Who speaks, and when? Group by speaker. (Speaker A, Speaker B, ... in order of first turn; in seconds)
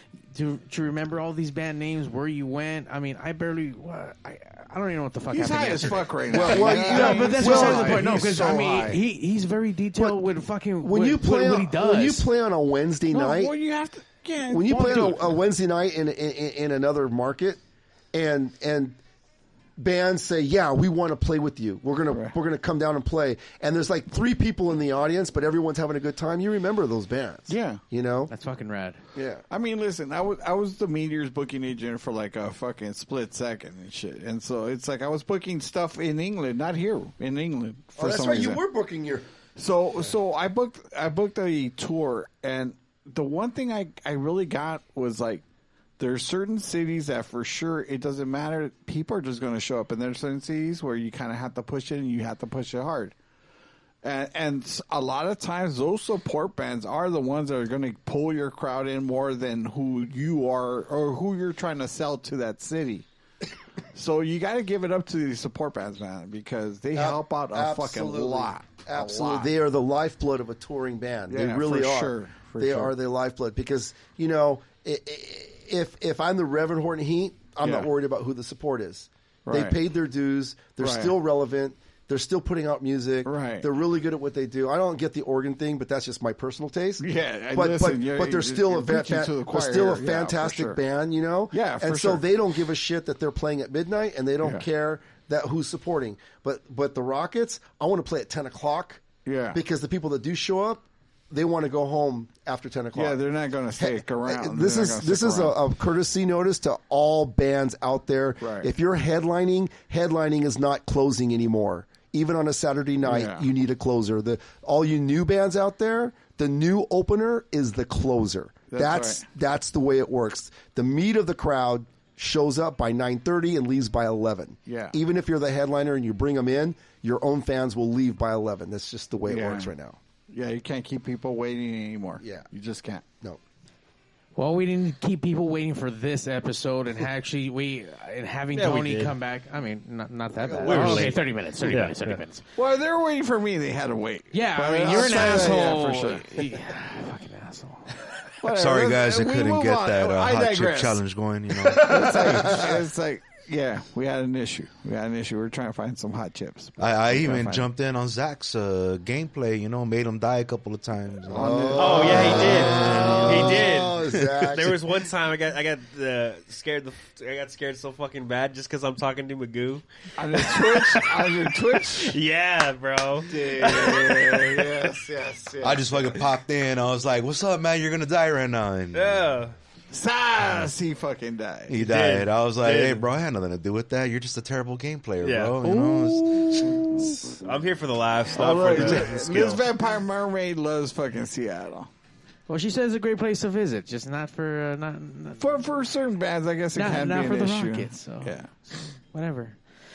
Speaker A: 0.3-12.3, 28.3-29.0, 134.3-142.4, 144.3-148.1, 185.7-186.9, 192.5-195.5, 196.7-199.6
Speaker B: 5.3-9.0, 13.1-15.4, 22.1-22.4, 27.5-27.8, 29.5-38.6, 39.5-45.4, 46.0-53.1, 54.0-63.0, 63.9-69.5, 71.3-73.0, 77.6-77.9, 79.5-79.8, 80.8-81.2, 83.2-83.7, 87.0-90.8, 91.5-92.2, 99.2-99.6, 102.9-105.6, 108.4-108.7, 113.0-113.5, 118.7-119.2, 124.7-125.0, 129.2-129.7, 130.3-133.0, 140.7-141.1, 142.6-146.5, 148.4-157.7, 161.3-163.0, 170.2-172.2, 173.2-176.2, 179.9-181.8, 186.6-187.1, 188.3-191.9, 195.4-198.5
Speaker C: 6.3-8.2, 10.0-10.2, 10.8-13.5, 14.5-17.6, 18.1-19.0, 19.8-28.3, 29.1-29.4, 38.0-39.2, 66.9-103.2, 103.8-130.0, 132.2-132.5, 140.4-141.1, 151.7-152.8, 161.3-164.8
Speaker D: 138.5-139.1, 140.6-142.2, 161.8-171.2, 171.9-174.8, 178.9-179.5, 181.8-183.1, 185.2-185.6, 187.4-189.6
Speaker E: 148.5-152.0, 156.8-163.6, 175.6-179.2, 181.7-186.9